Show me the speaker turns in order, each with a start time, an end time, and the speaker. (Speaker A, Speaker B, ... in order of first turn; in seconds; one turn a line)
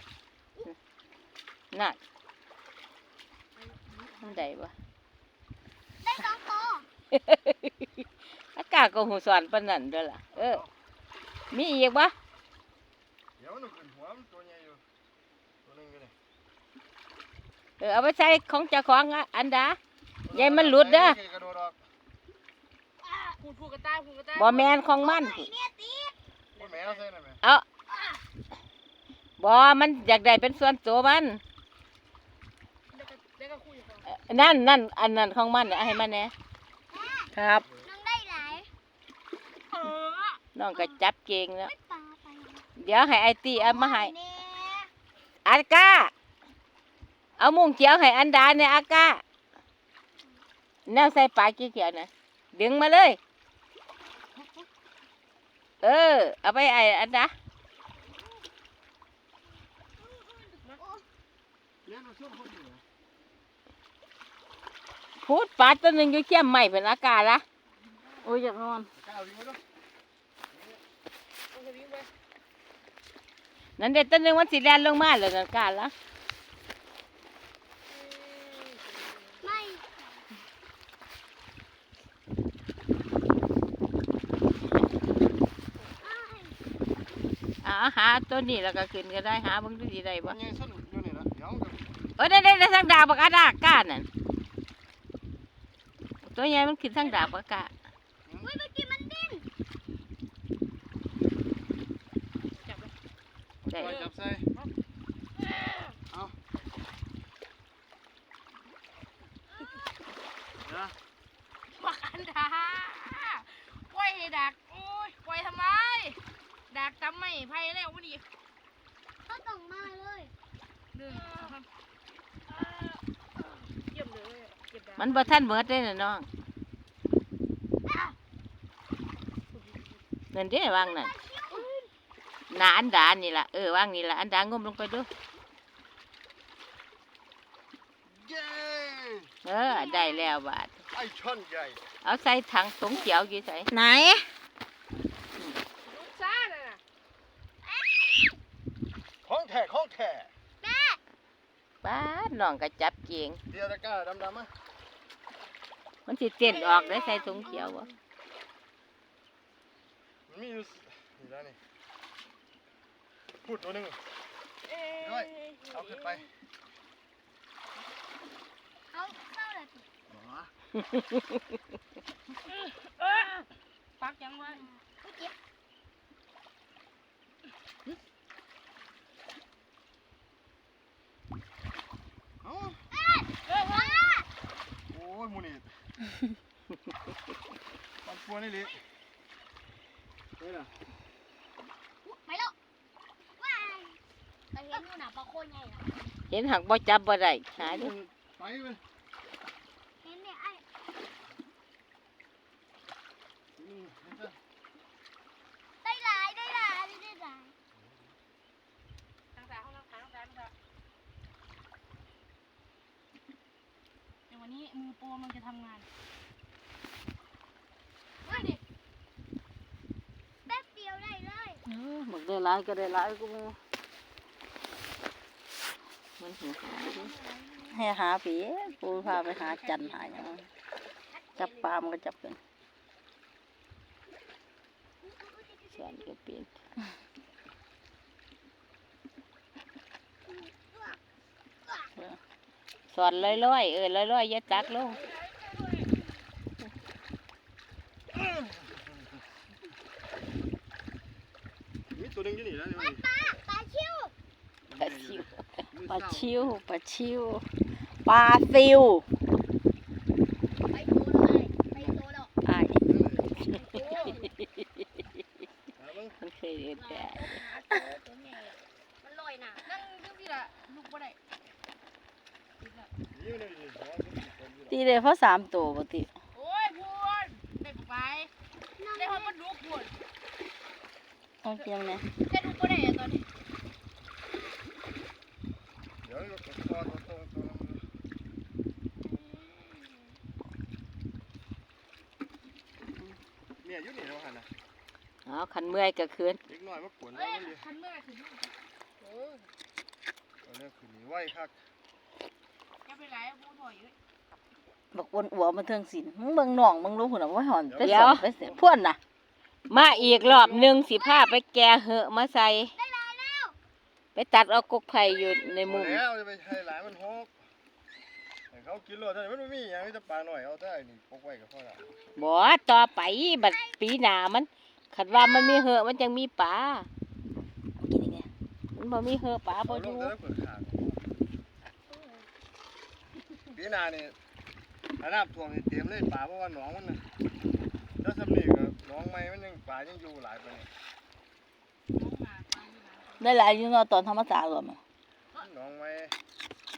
Speaker A: 1.7-2.0
Speaker B: 3.6-4.5
Speaker A: 4.2-4.7
Speaker C: 6.0-6.9
Speaker A: 7.1-8.0
Speaker A: 8.6-10.6
Speaker D: 10.3-10.7
Speaker A: 11.5-12.1
Speaker D: 13.4-14.8
Speaker D: 15.6-16.1
Speaker A: 17.8-19.8
Speaker D: 20.3-21.8
Speaker A: 20.3-21.2
Speaker C: 23.0-23.4
Speaker B: 23.4-24.7
Speaker A: 24.4-25.5
Speaker C: 25.0-26.1
Speaker B: 26.6-27.0
Speaker D: 26.6-27.4
Speaker C: 27.9-28.2
Speaker A: 29.4-31.4
Speaker B: 32.9-34.1
Speaker A: 34.1-36.3
Speaker C: 35.7-36.1
Speaker C: 36.9-38.7
Speaker E: 37.4-37.6
Speaker B: 39.7-40.4
Speaker A: 40.5-41.7
Speaker C: 41.6-42.7
Speaker A: 42.8-44.1
Speaker C: 43.6-44.9
Speaker A: 45.5-46.1
Speaker A: 47.4-49.2
Speaker A: 50.9-53.2
Speaker A: 55.8-57.3
Speaker C: 60.8-61.0
Speaker D: 61.9-62.8
Speaker A: 65.3-67.4
Speaker E: 68.2-68.9
Speaker D: 69.0-69.6
Speaker D: 70.5-70.8
Speaker B: 71.5-72.1
Speaker A: 73.8-75.9
Speaker B: 77.9-79.4
Speaker C: 79.4-80.2
Speaker C: 86.0-86.6
Speaker A: 87.6-90.4
Speaker D: 90.3-91.9
Speaker A: 92.2-94.1
Speaker A: 96.2-97.7
Speaker C: 97.0-97.3
Speaker C: 98.4-99.5
Speaker B: 102.6-102.9
Speaker D: 103.6-104.5
Speaker A: 103.7-104.0
Speaker B: 103.8-104.7
Speaker B: 105.4-105.8
Speaker D: 106.1-106.4
Speaker D: 110.7-111.0
Speaker B: 111.7-116.2
Speaker B: 116.7-118.2
Speaker C: 119.3-120.3
Speaker B: 120.9-121.7
Speaker C: 121.1-121.5
Speaker B: 122.5-125.4
Speaker A: 125.0-126.3
Speaker C: 127.9-128.2
Speaker B: 129.5-130.0
Speaker A: 130.3-131.1
Speaker C: 130.7-131.7
Speaker B: 131.5-131.9
Speaker A: 132.5-135.1
Speaker D: 138.1-139.3
Speaker A: 139.4-140.8
Speaker C: 139.7-140.3
Speaker D: 140.9-141.8
Speaker A: 142.0-143.7
Speaker E: 143.7-144.2
Speaker B: 145.8-146.8
Speaker C: 147.6-148.3
Speaker D: 149.2-150.3
Speaker C: 150.6-151.0
Speaker A: 151.8-153.4
Speaker D: 153.5-154.5
Speaker A: 156.1-157.9
Speaker C: 156.5-157.9
Speaker B: 156.6-157.8
Speaker D: 160.3-161.6
Speaker D: 163.4-164.0
Speaker B: 164.7-166.0
Speaker D: 165.0-166.3
Speaker C: 168.9-169.9
Speaker D: 170.1-170.5
Speaker A: 170.8-171.4
Speaker B: 172.5-173.4
Speaker B: 174.0-174.7
Speaker C: 174.5-175.3
Speaker D: 182.4-182.8
Speaker C: 182.9-184.3
Speaker B: 183.5-184.1
Speaker D: 184.9-185.7
Speaker D: 188.0-188.8
Speaker D: 190.4-190.7
Speaker C: 192.0-192.6
Speaker C: 193.4-194.0
Speaker C: 194.5-195.9
Speaker A: 196.3-198.0
Speaker D: 197.6-198.8
Speaker C: 200.0-200.6
Speaker D: 203.6-204.4
Speaker C: 205.8-207.6
Speaker D: 207.8-208.0
Speaker B: 209.3-210.5
Speaker B: 214.3-215.9
Speaker B: 218.2-218.6
Speaker C: 218.2-218.5
Speaker C: 220.5-221.6
Speaker E: 221.7-223.6
Speaker A: 226.2-227.1
Speaker B: 226.8-227.8
Speaker E: 227.7-230.4
Speaker B: 228.9-230.1
Speaker C: 231.1-231.8
Speaker E: 231.4-232.4
Speaker C: 235.0-236.1
Speaker A: 235.7-236.5
Speaker C: 240.3-241.0
Speaker A: 242.9-245.0
Speaker C: 244.8-246.2
Speaker D: 248.2-248.8
Speaker D: 251.9-253.0
Speaker C: 252.7-254.1
Speaker D: 254.7-256.5
Speaker A: 254.8-255.3
Speaker E: 255.9-257.4
Speaker E: 258.1-259.0
Speaker C: 260.7-262.3
Speaker D: 261.7-262.0
Speaker E: 262.4-262.8
Speaker D: 262.8-263.4
Speaker E: 263.4-263.8
Speaker C: 263.5-264.3
Speaker B: 263.8-264.2
Speaker D: 265.8-266.2
Speaker A: 266.2-267.2
Speaker C: 266.7-269.7
Speaker B: 269.6-271.2
Speaker B: 272.6-272.9
Speaker D: 273.1-274.8
Speaker E: 274.7-276.1
Speaker B: 276.3-278.3
Speaker C: 278.8-279.4
Speaker B: 278.9-280.0
Speaker E: 281.4-282.0
Speaker B: 282.3-283.2
Speaker D: 286.0-287.8
Speaker B: 289.1-289.7
Speaker D: 293.6-294.5
Speaker A: 295.3-296.4
Speaker D: 296.5-297.6
Speaker B: 297.1-299.1
Speaker D: 300.4-301.6
Speaker B: 302.9-303.9
Speaker E: 304.9-309.0
Speaker D: 307.7-308.6
Speaker A: 307.8-308.3
Speaker A: 309.7-312.7
Speaker D: 309.7-310.8
Speaker C: 310.9-311.4
Speaker C: 312.8-313.6
Speaker A: 314.1-316.0
Speaker D: 315.7-317.3
Speaker D: 318.5-322.1
Speaker A: 322.2-326.9
Speaker C: 323.4-323.8
Speaker C: 325.1-325.7
Speaker E: 327.8-328.3
Speaker A: 328.8-330.1
Speaker D: 329.6-331.0
Speaker B: 331.9-332.2
Speaker D: 333.5-334.2
Speaker D: 335.0-337.0
Speaker D: 338.0-340.7
Speaker B: 341.9-343.4
Speaker E: 343.2-344.8
Speaker D: 345.4-346.1